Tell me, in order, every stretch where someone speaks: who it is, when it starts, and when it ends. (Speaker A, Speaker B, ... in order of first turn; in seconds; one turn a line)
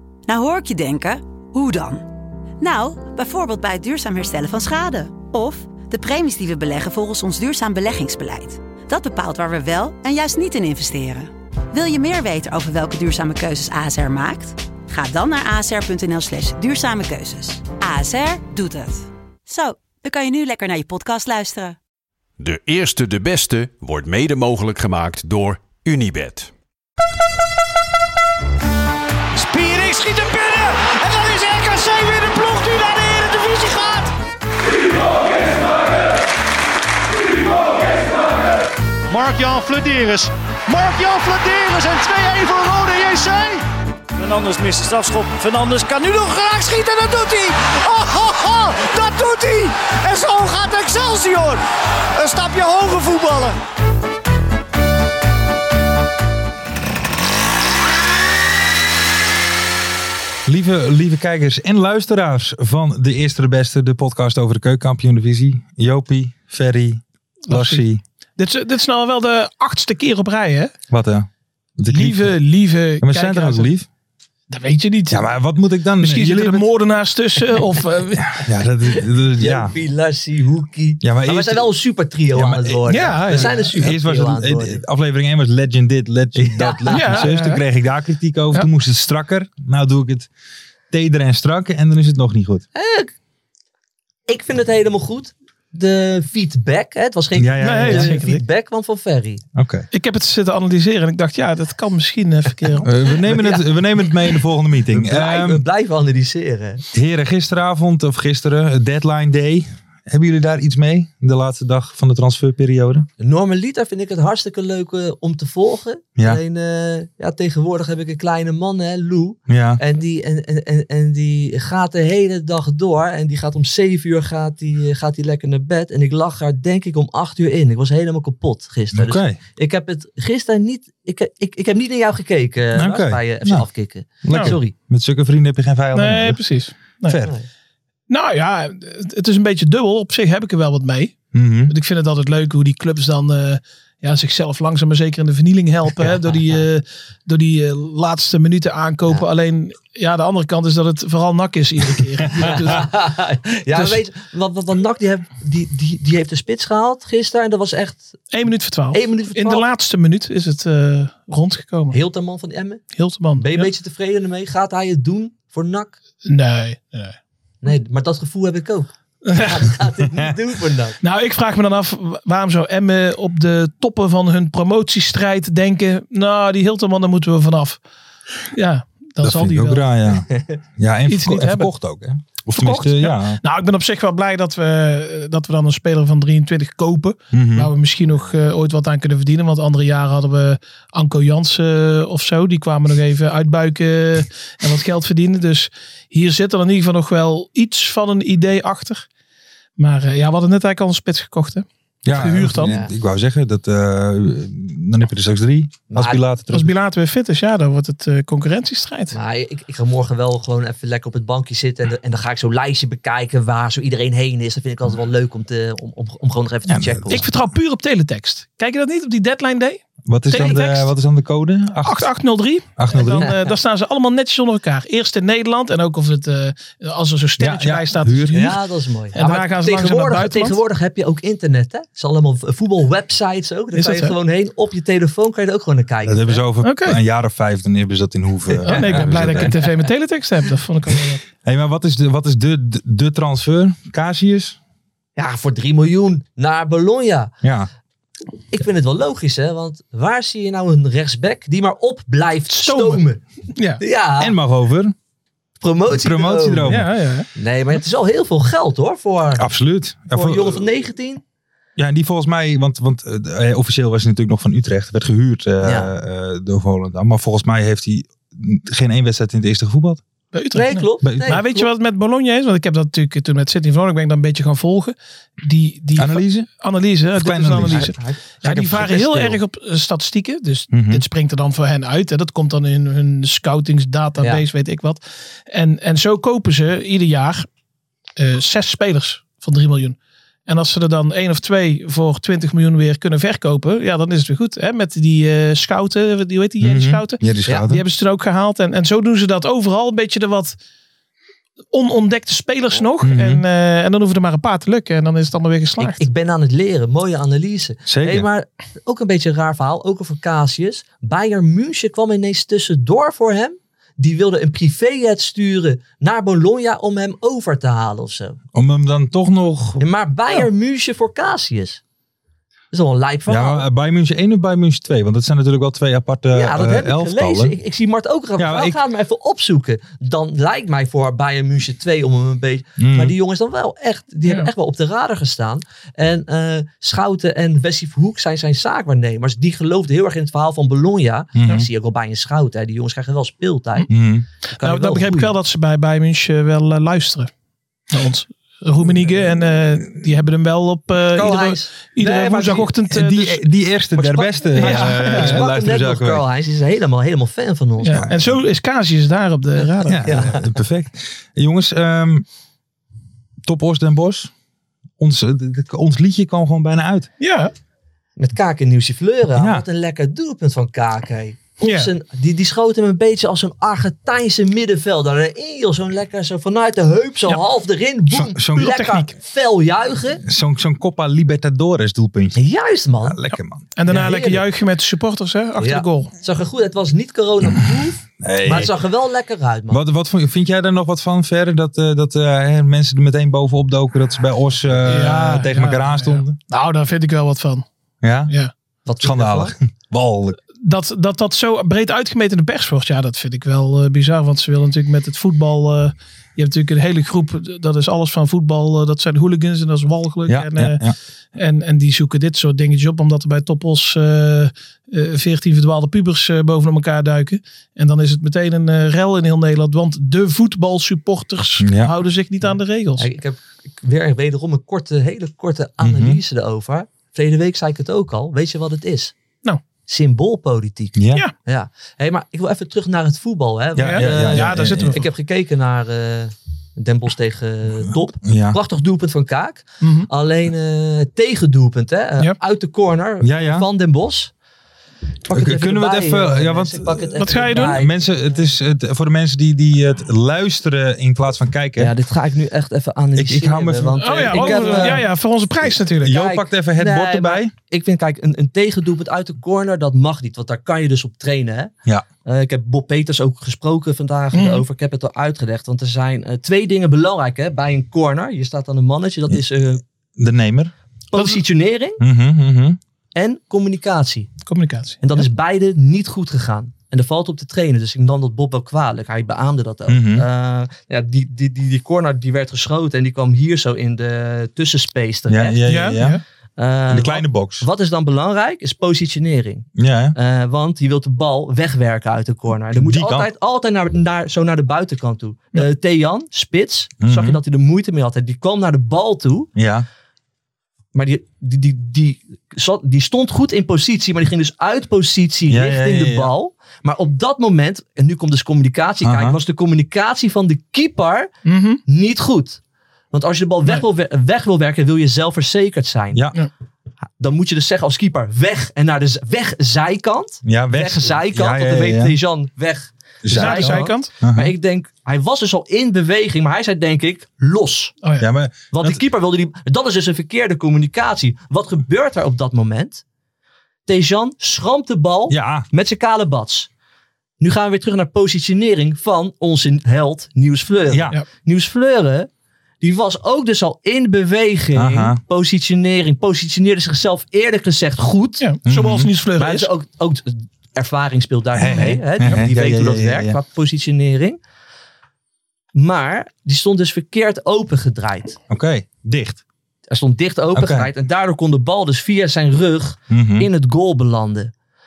Speaker A: 0.3-2.0
Speaker A: 2.6-21.8
Speaker B: 22.4-26.5
Speaker C: 29.3-34.1
Speaker C: 39.1-43.6
Speaker C: 44.1-51.6
Speaker C: 52.1-53.6
Speaker D: 60.5-68.0
Speaker E: 67.5-67.8
Speaker E: 68.4-70.7
Speaker D: 70.9-72.4
Speaker E: 71.9-73.7
Speaker D: 73.0-73.9
Speaker E: 74.5-75.3
Speaker D: 75.1-76.7
Speaker E: 76.0-78.4
Speaker D: 78.3-79.7
Speaker F: 78.9-84.8
Speaker D: 81.0-81.7
Speaker D: 82.3-90.3
Speaker E: 82.9-83.9
Speaker F: 86.4-87.3
Speaker E: 86.9-87.6
Speaker D: 90.9-92.7
Speaker F: 92.7-93.1
Speaker F: 94.3-99.4
Speaker D: 97.4-98.2
Speaker E: 97.6-98.4
Speaker D: 99.5-99.9
Speaker E: 99.9-102.9
Speaker F: 102.7-103.7
Speaker D: 102.8-105.6
Speaker F: 104.9-106.8
Speaker D: 106.9-113.1
Speaker F: 113.2-134.7
Speaker D: 119.5-119.8
Speaker D: 128.9-129.4
Speaker D: 132.7-133.7
Speaker D: 134.2-136.4
Speaker E: 134.3-134.6
Speaker E: 135.9-137.2
Speaker D: 137.0-137.3
Speaker F: 137.2-137.5
Speaker E: 138.1-152.9
Speaker D: 141.3-141.7
Speaker F: 146.0-146.5
Speaker F: 152.3-158.2
Speaker E: 158.3-162.0
Speaker F: 158.9-159.7
Speaker F: 161.9-165.9
Speaker E: 162.9-163.7
Speaker E: 166.3-167.2
Speaker F: 167.6-171.0
Speaker E: 169.3-169.7
Speaker E: 171.0-177.8
Speaker E: 178.5-179.9
Speaker D: 179.2-183.4
Speaker F: 180.3-180.6
Speaker E: 181.1-181.7
Speaker E: 182.5-199.1
Speaker D: 187.3-187.7
Speaker E: 199.8-202.7
Speaker D: 202.1-206.7
Speaker F: 202.6-202.9
Speaker F: 205.9-206.2
Speaker E: 206.5-209.1
Speaker F: 209.1-217.3
Speaker D: 216.7-217.2
Speaker E: 217.1-220.9
Speaker D: 220.1-222.1
Speaker E: 221.8-228.6
Speaker D: 222.8-223.3
Speaker F: 223.2-223.5
Speaker D: 227.4-228.5
Speaker F: 228.3-236.4
Speaker E: 229.1-230.6
Speaker E: 233.7-234.1
Speaker D: 236.0-239.5
Speaker E: 236.6-237.0
Speaker F: 238.5-239.9
Speaker E: 238.6-241.2
Speaker D: 241.4-244.6
Speaker F: 245.2-247.3
Speaker D: 247.4-247.7
Speaker F: 248.5-253.2
Speaker E: 252.6-253.0
Speaker E: 253.6-253.8
Speaker F: 253.8-254.3
Speaker D: 254.2-254.9
Speaker F: 255.6-256.7
Speaker D: 255.9-256.9
Speaker E: 256.6-257.3
Speaker F: 257.4-259.4
Speaker D: 259.4-260.6
Speaker F: 260.1-261.2
Speaker D: 261.8-270.0
Speaker F: 265.6-265.9
Speaker E: 270.3-287.5
Speaker F: 270.5-271.7
Speaker D: 271.0-271.4
Speaker D: 275.9-276.5
Speaker D: 277.1-277.9
Speaker F: 277.6-279.4
Speaker D: 280.7-281.0
Speaker F: 284.2-284.4
Speaker E: 288.2-300.6
Speaker D: 296.6-297.8
Speaker E: 301.7-306.0
Speaker D: 303.0-303.4
Speaker F: 305.8-318.4
Speaker D: 307.9-308.3
Speaker D: 318.5-319.9
Speaker F: 319.8-321.8
Speaker F: 322.7-323.6
Speaker D: 323.3-327.5
Speaker F: 326.3-343.9
Speaker D: 328.4-328.8
Speaker D: 332.8-333.1
Speaker D: 341.4-341.7
Speaker D: 343.9-344.3
Speaker F: 344.5-345.3
Speaker E: 344.6-347.3
Speaker E: 347.9-353.4
Speaker F: 351.1-352.7
Speaker D: 352.9-356.2
Speaker E: 354.0-355.4
Speaker F: 354.3-358.1
Speaker E: 357.8-360.3
Speaker D: 357.9-358.4
Speaker D: 359.8-362.2
Speaker F: 360.0-360.5
Speaker D: 363.4-364.3
Speaker D: 365.0-367.1
Speaker E: 367.2-367.5
Speaker F: 368.2-380.2
Speaker D: 369.4-369.6
Speaker D: 371.6-371.9
Speaker D: 378.2-378.9
Speaker E: 378.6-379.1
Speaker D: 380.2-382.4
Speaker F: 382.4-383.1
Speaker D: 383.0-383.7
Speaker E: 383.7-386.1
Speaker F: 383.9-384.4
Speaker F: 385.6-389.8
Speaker D: 388.2-388.7
Speaker D: 389.7-396.4
Speaker E: 394.9-397.6
Speaker D: 398.0-398.3
Speaker F: 398.9-399.5
Speaker D: 399.0-400.4
Speaker E: 400.6-410.8
Speaker D: 410.3-410.9
Speaker E: 411.4-423.1
Speaker D: 421.6-421.9
Speaker F: 423.0-429.1
Speaker D: 425.8-426.2
Speaker F: 429.9-444.3
Speaker D: 430.9-431.2
Speaker D: 433.8-435.0
Speaker E: 433.8-435.1
Speaker D: 438.2-438.6
Speaker E: 439.8-440.1
Speaker D: 443.2-443.7
Speaker F: 445.3-448.1
Speaker D: 445.3-451.9
Speaker E: 447.2-447.8
Speaker F: 451.8-455.0
Speaker D: 453.1-455.0
Speaker E: 454.0-456.2
Speaker D: 455.6-457.5
Speaker F: 456.0-461.7
Speaker F: 462.2-469.8
Speaker E: 464.3-464.6
Speaker D: 470.2-470.7
Speaker F: 471.1-472.0
Speaker D: 472.0-472.8
Speaker F: 473.1-474.3
Speaker E: 474.4-475.2
Speaker F: 475.0-485.6
Speaker D: 479.9-480.2
Speaker D: 485.3-486.2
Speaker E: 485.6-486.2
Speaker F: 486.6-499.5
Speaker D: 486.9-487.7
Speaker D: 489.8-490.1
Speaker D: 492.7-493.3
Speaker D: 497.0-497.4
Speaker D: 499.5-499.9
Speaker F: 500.9-511.3
Speaker D: 505.5-506.3
Speaker D: 509.0-509.4
Speaker E: 511.4-511.8
Speaker F: 511.9-512.6
Speaker F: 513.1-516.2
Speaker D: 516.1-516.4
Speaker F: 517.2-527.9
Speaker D: 520.4-522.1
Speaker D: 523.2-524.5
Speaker E: 523.3-524.1
Speaker D: 528.2-529.0
Speaker F: 528.7-533.0
Speaker F: 533.9-536.7
Speaker D: 535.3-535.6
Speaker F: 537.4-542.3
Speaker D: 540.9-541.2
Speaker F: 542.8-548.5
Speaker D: 544.7-545.2
Speaker E: 548.4-549.7
Speaker D: 548.6-549.1
Speaker F: 549.4-554.4
Speaker D: 551.5-553.4
Speaker E: 551.6-552.4
Speaker F: 555.7-558.4
Speaker D: 558.5-559.4
Speaker F: 559.9-564.5
Speaker D: 560.5-560.9
Speaker D: 563.1-563.5